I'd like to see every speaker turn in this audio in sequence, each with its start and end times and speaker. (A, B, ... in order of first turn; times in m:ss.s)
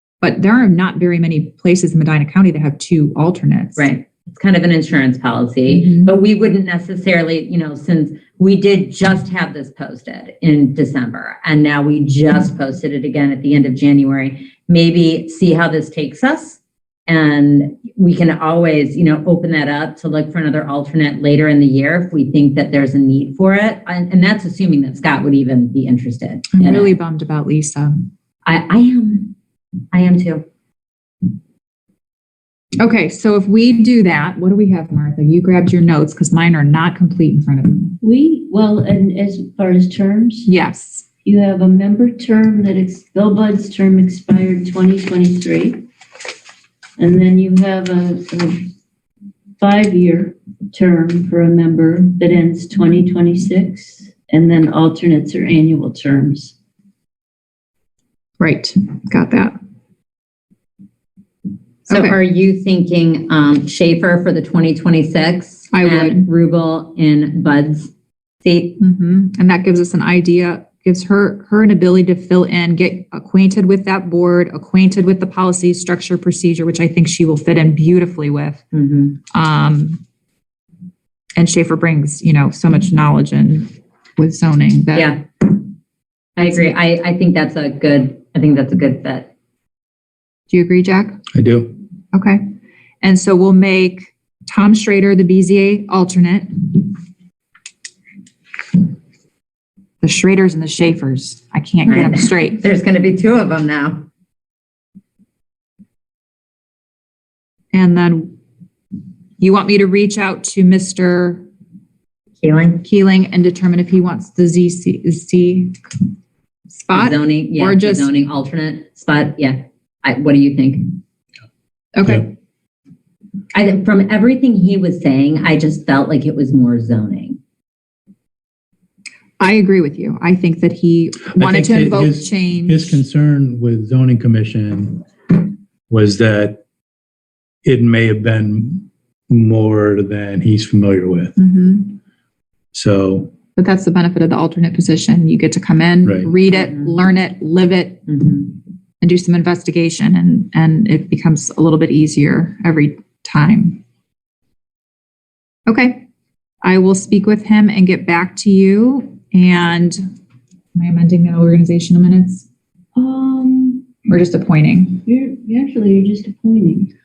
0:00.2-0:03.9 A
0:03.8-0:26.9 B
0:05.7-0:06.1 A
0:26.5-0:28.1 A
0:28.4-0:29.3 B
0:29.9-0:30.4 B
0:32.8-0:38.0 A
0:38.0-0:40.5 C
0:40.5-0:41.0 A
0:41.2-0:45.8 C
0:47.0-0:48.7 C
0:49.6-0:56.5 C
0:58.4-0:59.6 A
1:01.9-1:02.2 A
1:01.9-1:07.9 B
1:05.7-1:06.3 A
1:08.4-1:08.8 B
1:08.8-1:18.6 A
1:18.7-1:19.2 B
1:19.3-1:20.0 A
1:21.4-1:25.2 A
1:24.9-1:25.5 B
1:26.4-1:29.3 B
1:30.5-1:31.2 A
1:31.3-1:31.7 D
1:32.1-1:32.5 A
1:33.0-1:36.9 A
1:40.0-1:42.6 A
1:41.9-1:44.1 B
1:47.7-1:48.4 A
1:49.4-1:51.4 A
1:52.4-1:52.8 B
1:52.8-1:55.8 A
1:56.7-1:58.1 A
1:56.9-2:01.0 B
2:02.0-2:02.3 A
2:03.5-2:07.4 B
2:09.4-2:13.0 A
2:11.4-2:15.3 D
2:15.9-2:16.6 D
2:17.6-2:21.3 D
2:21.4-2:22.0 A
2:22.7-2:23.3 D
2:23.6-2:33.8 A
2:26.0-2:26.3 D
2:35.7-2:36.1 A
2:36.6-2:40.1 A
2:40.8-2:42.4 A
2:43.0-2:44.0 C
2:44.0-2:45.0 A
2:45.0-2:46.9 C